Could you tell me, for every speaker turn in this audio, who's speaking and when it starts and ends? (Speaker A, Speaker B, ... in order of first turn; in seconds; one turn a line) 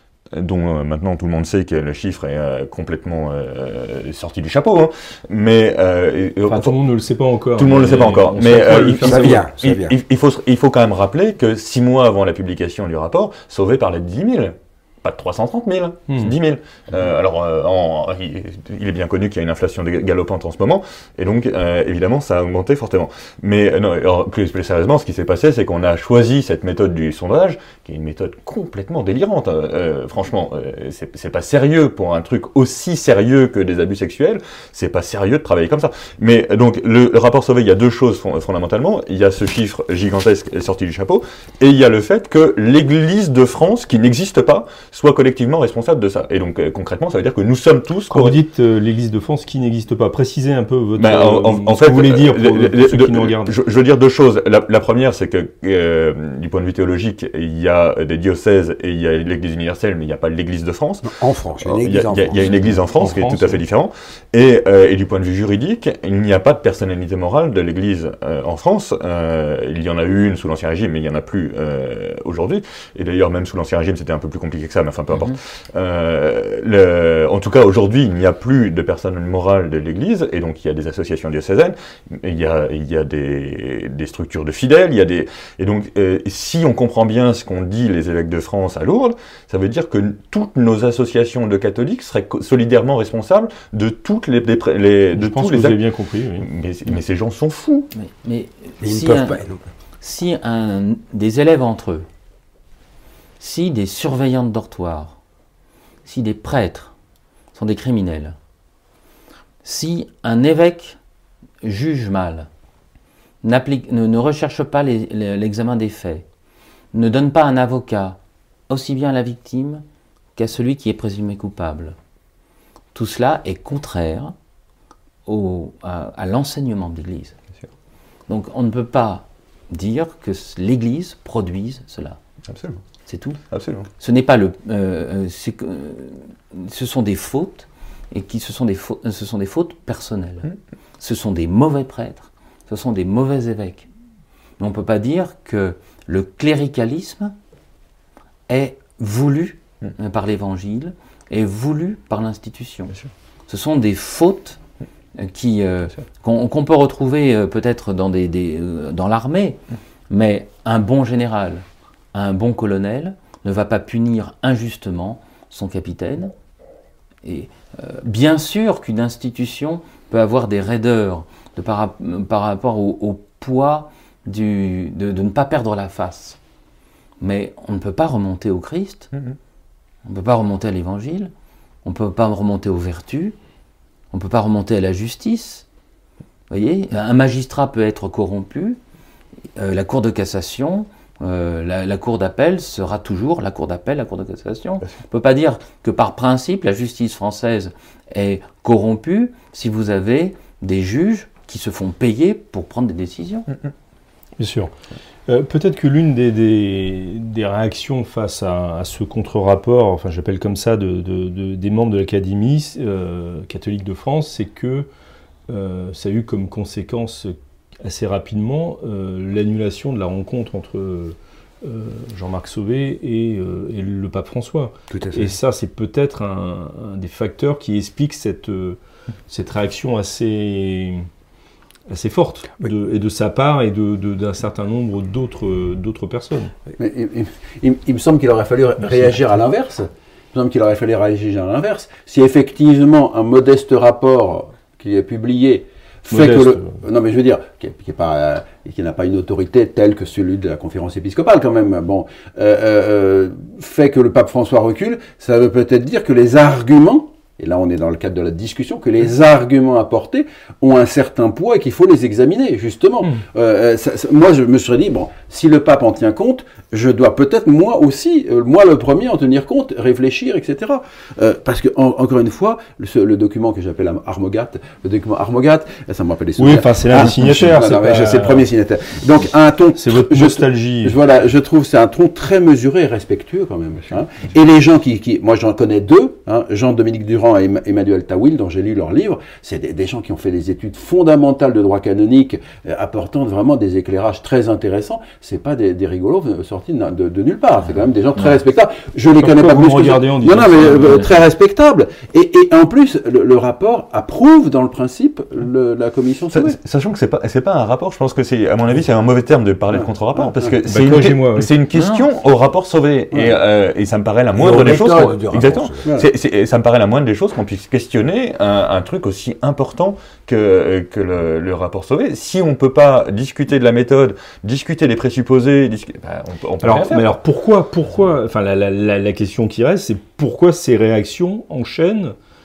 Speaker A: 0.3-6.8
Speaker B: 6.5-9.4
Speaker A: 7.5-48.4
Speaker C: 8.7-10.0
Speaker B: 16.1-16.4
Speaker B: 48.1-53.6
Speaker A: 51.0-95.8
Speaker C: 61.0-62.5
Speaker B: 62.4-63.6
Speaker D: 75.1-75.4
Speaker B: 95.1-96.5
Speaker A: 96.4-97.9
Speaker D: 97.9-99.4
Speaker C: 98.8-99.6
Speaker D: 100.0-102.0
Speaker D: 103.4-105.2
Speaker D: 106.0-106.9
Speaker D: 107.5-108.3
Speaker D: 109.6-111.0
Speaker D: 111.6-112.5
Speaker D: 113.4-116.2
Speaker D: 116.9-118.2
Speaker D: 118.7-119.8
Speaker D: 120.3-122.0
Speaker D: 122.9-124.3
Speaker D: 125.2-127.3
Speaker D: 128.3-132.2
Speaker A: 132.5-132.8
Speaker D: 133.1-133.4
Speaker A: 133.5-133.9
Speaker D: 134.0-140.5
Speaker D: 141.0-143.9
Speaker D: 144.6-147.3
Speaker D: 148.5-152.9
Speaker D: 153.5-154.6
Speaker D: 155.2-166.3
Speaker D: 167.2-176.4
Speaker D: 177.2-179.1
Speaker D: 180.1-181.3
Speaker D: 181.8-183.3
Speaker D: 184.1-185.7
Speaker D: 186.5-188.8
Speaker D: 189.6-203.5
Speaker B: 204.4-204.7
Speaker B: 205.3-214.9
Speaker B: 215.5-231.1
Speaker C: 224.9-225.3
Speaker B: 231.9-236.5
Speaker E: 236.8-306.5
Speaker B: 246.1-246.7
Speaker B: 276.4-278.4
Speaker B: 279.8-281.0
Speaker B: 299.2-301.1
Speaker A: 306.3-327.1
Speaker E: 309.7-310.5
Speaker B: 310.7-311.5
Speaker D: 311.7-312.1
Speaker C: 314.3-315.9
Speaker B: 326.6-332.1